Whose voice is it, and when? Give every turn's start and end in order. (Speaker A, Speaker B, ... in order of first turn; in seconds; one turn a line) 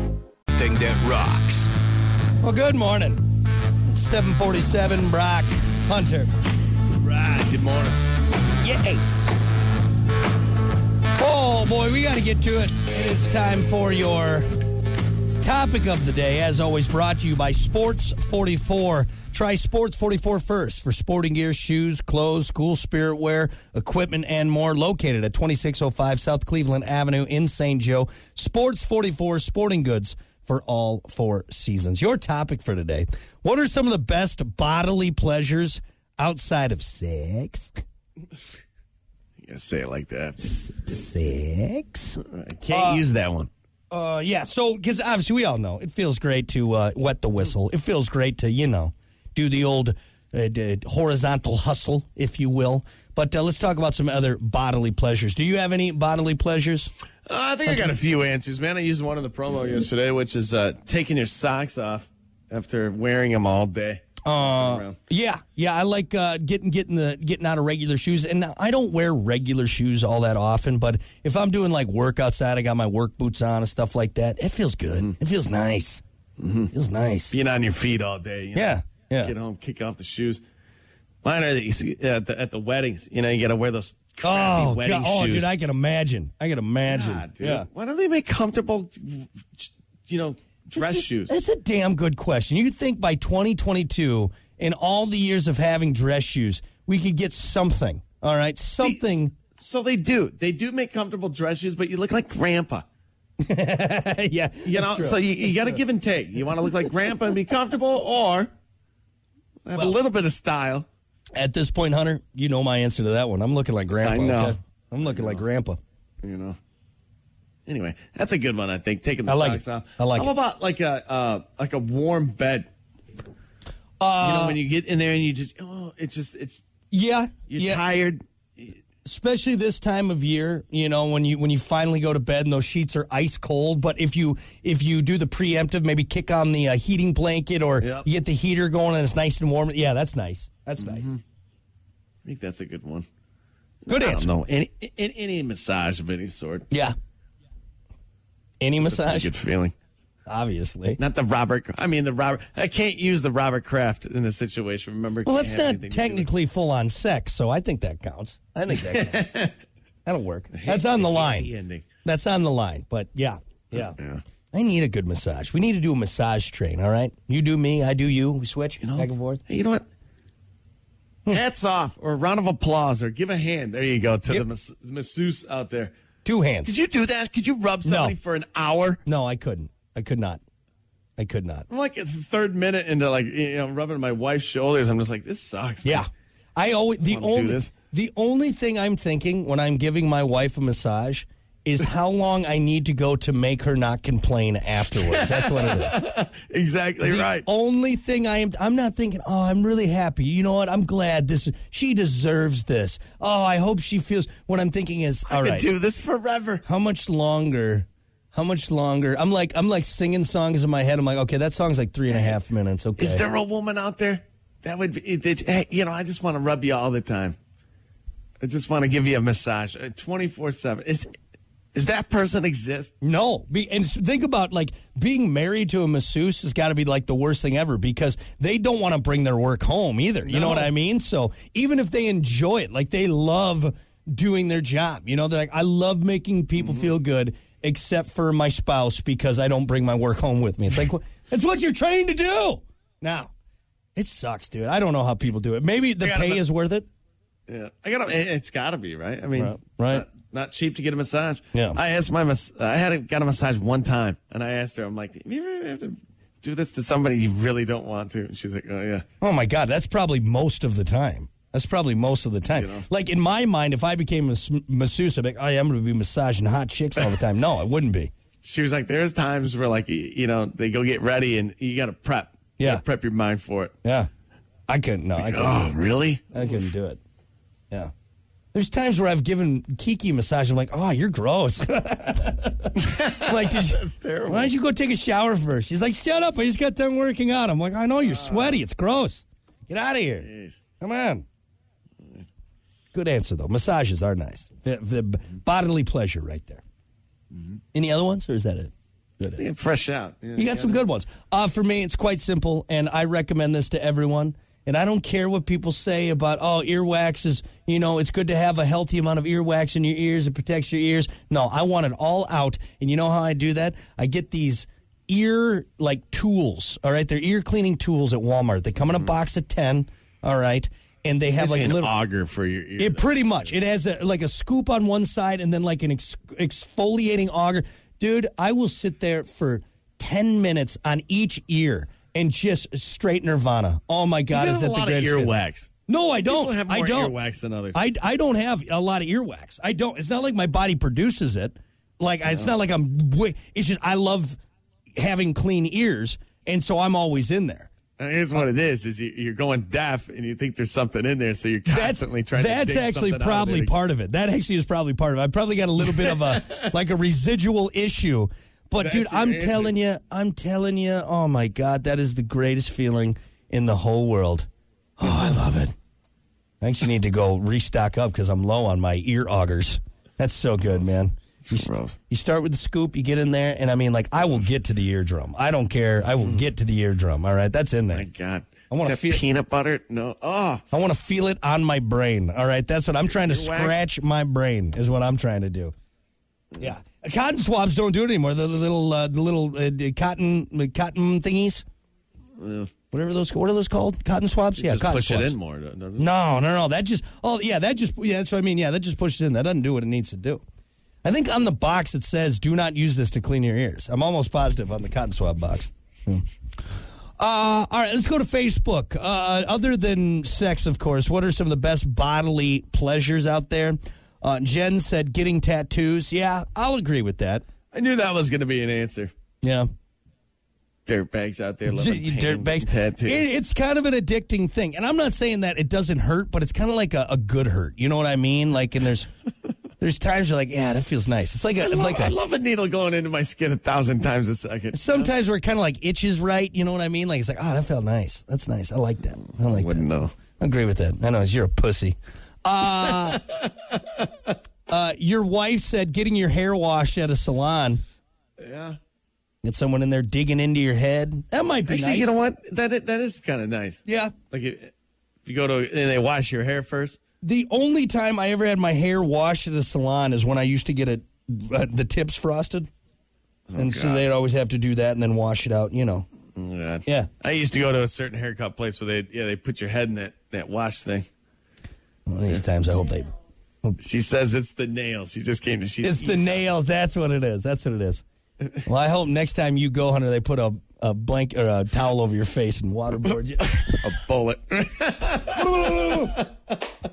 Speaker A: 1.1-1.5
Speaker B: 2.4-3.3
Speaker B: 3.9-6.3
Speaker A: 7.0-8.0
Speaker B: 8.6-9.4
Speaker B: 11.2-14.5
Speaker B: 15.4-37.7
Speaker A: 39.4-40.6
Speaker B: 40.5-42.2
Speaker A: 42.2-43.5
Speaker B: 42.7-43.0
Speaker B: 43.9-56.9
Speaker A: 57.3-65.0
Speaker B: 57.7-58.0
Speaker B: 64.2-76.0
Speaker A: 76.4-76.7
Speaker B: 76.7-77.4
Speaker A: 77.3-80.4
Speaker B: 78.5-79.3
Speaker A: 81.2-85.5
Speaker B: 84.2-87.7
Speaker A: 86.9-91.4
Speaker B: 90.8-99.3
Speaker A: 98.8-102.8
Speaker B: 103.4-105.8
Speaker A: 104.6-108.5
Speaker A: 109.7-110.9
Speaker B: 111.3-115.8
Speaker A: 114.0-115.4
Speaker A: 116.2-116.6
Speaker A: 117.7-122.7
Speaker B: 119.3-120.3
Speaker B: 124.0-124.6
Speaker A: 124.2-126.7
Speaker B: 126.9-127.8
Speaker A: 127.5-128.7
Speaker B: 129.0-141.1
Speaker A: 137.8-138.1
Speaker A: 140.8-141.2
Speaker A: 142.2-143.1
Speaker A: 143.8-146.7
Speaker B: 143.9-144.3
Speaker B: 146.7-146.9
Speaker B: 148.6-149.3
Speaker A: 148.8-149.7
Speaker B: 150.3-151.0
Speaker A: 151.0-156.3
Speaker B: 155.3-159.3
Speaker A: 158.7-159.6
Speaker B: 160.1-161.5
Speaker A: 160.5-161.9
Speaker B: 162.1-164.0
Speaker A: 163.7-164.2
Speaker B: 164.5-169.4
Speaker A: 168.8-169.8
Speaker A: 171.3-175.9
Speaker B: 176.2-176.8
Speaker A: 176.7-179.0
Speaker B: 177.8-178.2
Speaker B: 179.1-180.4
Speaker B: 181.2-181.7
Speaker A: 181.7-186.1
Speaker B: 185.8-196.0
Speaker A: 187.0-187.7
Speaker A: 194.8-197.5
Speaker B: 197.0-205.7
Speaker A: 205.3-206.6
Speaker B: 206.7-213.2
Speaker A: 212.1-212.4
Speaker A: 213.0-217.4
Speaker A: 218.4-221.1
Speaker A: 221.8-222.9
Speaker B: 223.0-243.3
Speaker A: 230.2-230.7
Speaker A: 236.6-236.9
Speaker B: 243.9-246.9
Speaker A: 246.0-246.4
Speaker A: 247.5-259.1
Speaker B: 249.3-250.1
Speaker B: 251.5-251.8
Speaker B: 259.2-268.1
Speaker A: 262.4-262.9
Speaker A: 268.4-273.7
Speaker B: 272.6-272.8
Speaker B: 273.8-274.1
Speaker B: 274.7-275.7
Speaker A: 275.2-276.7
Speaker B: 276.3-277.0
Speaker B: 278.5-290.3
Speaker A: 282.8-284.5
Speaker A: 288.0-288.6
Speaker A: 290.2-290.6
Speaker B: 290.8-291.2
Speaker B: 292.9-296.6
Speaker B: 297.7-299.4
Speaker A: 299.4-300.8
Speaker B: 300.4-321.9
Speaker A: 321.4-323.5
Speaker B: 322.8-335.3
Speaker A: 334.3-335.7
Speaker B: 335.9-337.2
Speaker A: 336.2-337.8
Speaker B: 337.7-344.4
Speaker B: 345.0-347.7
Speaker A: 348.0-353.8
Speaker B: 351.7-364.5
Speaker A: 355.8-356.6
Speaker A: 358.8-359.8
Speaker B: 365.0-365.7
Speaker B: 366.6-378.1
Speaker A: 370.7-372.0
Speaker A: 377.9-380.6
Speaker B: 378.7-379.2
Speaker B: 380.7-385.7
Speaker A: 383.1-383.9
Speaker B: 386.6-391.6
Speaker A: 392.4-392.7
Speaker B: 392.9-395.4
Speaker A: 394.6-396.1
Speaker B: 396.0-400.4
Speaker B: 401.0-406.2
Speaker B: 407.2-417.4
Speaker A: 417.7-419.1
Speaker A: 420.9-423.3
Speaker B: 421.7-429.1
Speaker B: 429.8-432.1
Speaker A: 431.6-435.1
Speaker B: 434.7-443.2
Speaker A: 439.3-440.1
Speaker A: 442.7-444.3
Speaker B: 444.7-447.8
Speaker A: 448.4-448.8
Speaker B: 449.4-452.1
Speaker A: 451.7-454.7
Speaker B: 453.9-454.1
Speaker A: 455.2-457.0
Speaker B: 457.2-462.7
Speaker A: 463.5-464.1
Speaker B: 463.6-466.1
Speaker A: 466.4-471.1
Speaker B: 472.1-473.1
Speaker A: 473.8-476.5
Speaker B: 475.8-478.0
Speaker B: 478.6-483.8
Speaker A: 483.1-486.6
Speaker B: 485.3-486.1